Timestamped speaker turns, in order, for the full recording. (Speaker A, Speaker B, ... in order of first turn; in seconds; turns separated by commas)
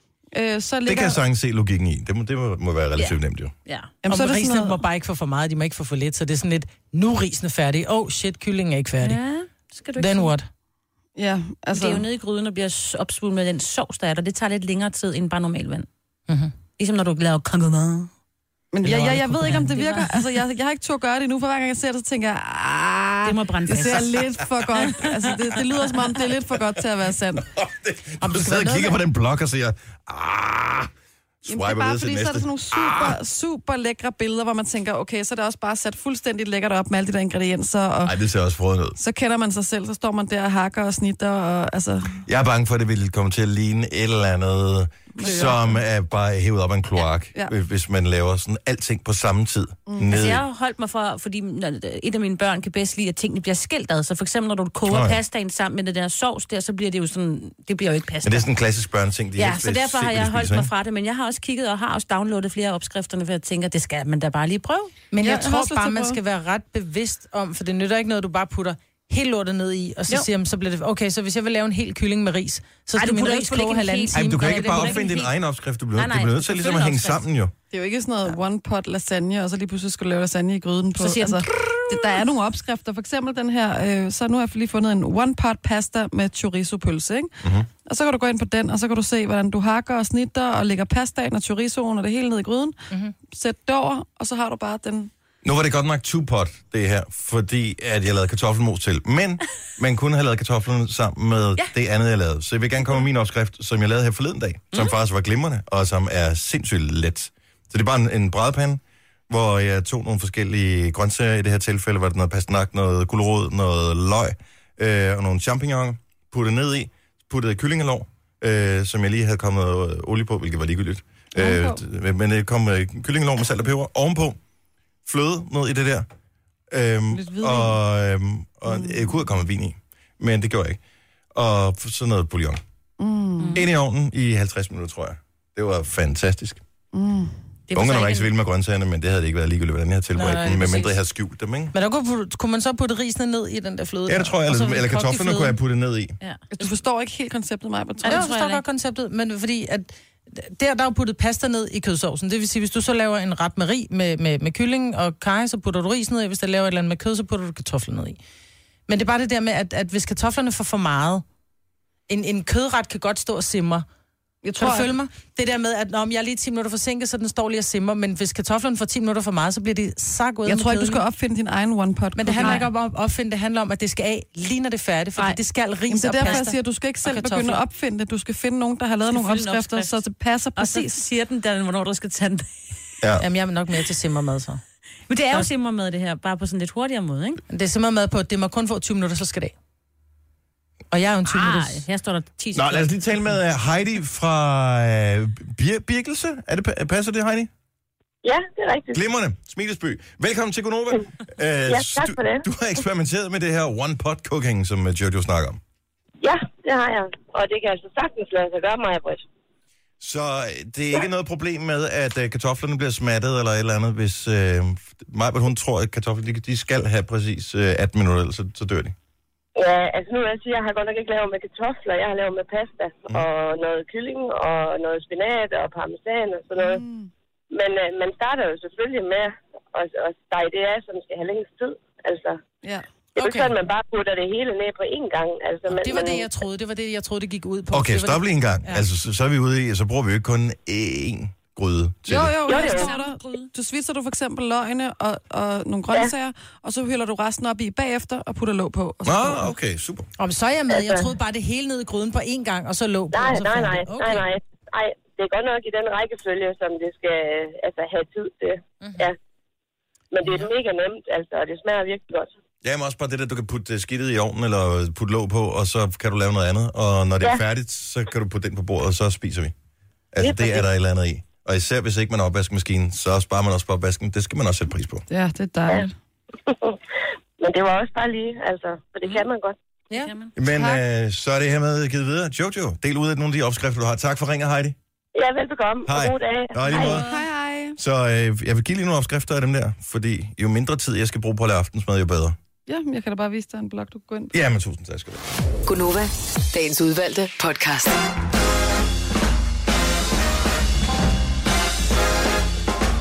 Speaker A: 0.3-1.2, Speaker B: 0.8-3.5, Speaker C: 3.0-3.9, Speaker A: 4.0-4.8, Speaker D: 4.1-9.2, Speaker C: 9.0-10.3, Speaker D: 10.0-10.5, Speaker A: 11.2-12.1, Speaker C: 11.7-15.9, Speaker D: 16.3-16.5, Speaker C: 16.8-18.1, Speaker A: 18.7-27.5, Speaker D: 18.8-19.6, Speaker C: 18.9-20.2, Speaker C: 23.2-25.1, Speaker B: 27.4-30.9, Speaker D: 28.2-29.0, Speaker B: 31.4-33.2, Speaker A: 31.5-38.1, Speaker B: 38.0-39.0, Speaker A: 39.0-42.2, Speaker B: 42.2-50.4, Speaker A: 45.2-45.8, Speaker A: 49.9-50.3, Speaker C: 50.0-58.5, Speaker B: 54.9-55.2, Speaker B: 58.2-60.7, Speaker C: 59.4-64.9, Speaker D: 65.1-75.0, Speaker A: 65.2-66.2, Speaker C: 73.0-75.3, Speaker B: 74.1-77.5, Speaker C: 75.9-77.2, Speaker A: 77.7-87.3, Speaker C: 81.0-81.8, Speaker B: 87.4-87.7, Speaker A: 87.8-95.1, Speaker B: 95.4-124.4, Speaker A: 121.3-121.8, Speaker B: 125.0-126.0, Speaker B: 126.7-130.8, Speaker A: 127.1-127.8, Speaker A: 128.7-129.2, Speaker B: 131.3-132.6, Speaker A: 133.0-133.6, Speaker C: 133.4-133.6, Speaker B: 133.5-136.6, Speaker A: 136.9-137.3, Speaker C: 137.7-138.3, Speaker B: 137.7-141.7, Speaker D: 140.2-140.9, Speaker D: 141.7-145.6, Speaker B: 144.1-146.2, Speaker C: 146.2-146.7, Speaker A: 146.6-148.5, Speaker C: 148.0-148.6, Speaker D: 148.0-158.2, Speaker D: 158.9-161.2, Speaker D: 162.1-163.8, Speaker A: 164.4-164.9, Speaker D: 164.6-171.0, Speaker A: 170.4-172.7, Speaker D: 172.2-177.6, Speaker C: 172.4-172.6, Speaker A: 175.9-181.0, Speaker C: 176.2-176.5, Speaker C: 179.1-180.0, Speaker C: 180.6-182.5, Speaker D: 183.2-184.6, Speaker C: 185.1-187.4, Speaker D: 187.5-189.5, Speaker D: 190.9-191.8, Speaker C: 191.2-193.1, Speaker B: 192.5-197.5, Speaker E: 198.2-199.0, Speaker B: 198.9-205.6, Speaker E: 201.7-202.4, Speaker E: 206.2-209.2, Speaker B: 210.0-218.9, Speaker E: 219.6-226.8, Speaker A: 226.6-227.1, Speaker E: 227.5-232.4, Speaker D: 233.2-233.5, Speaker E: 233.2-236.3, Speaker D: 235.7-238.8, Speaker B: 237.7-242.4, Speaker A: 242.1-249.5, Speaker E: 242.4-242.9, Speaker D: 242.6-243.3, Speaker C: 242.7-243.0, Speaker B: 249.0-250.1, Speaker D: 250.2-254.3, Speaker E: 250.7-251.1, Speaker E: 253.1-259.1, Speaker D: 258.8-259.1, Speaker E: 260.1-262.3, Speaker B: 262.6-269.5, Speaker B: 270.1-275.0, Speaker E: 270.2-270.6, Speaker A: 275.1-275.9, Speaker E: 276.5-276.8, Speaker E: 277.4-279.6, Speaker C: 279.9-280.3, Speaker B: 280.3-284.8, Speaker A: 280.5-280.8, Speaker E: 285.1-287.0, Speaker B: 285.9-287.1, Speaker A: 286.7-287.8, Speaker B: 287.8-292.4, Speaker A: 292.7-294.3, Speaker B: 294.3-295.3, Speaker F: 295.7-298.0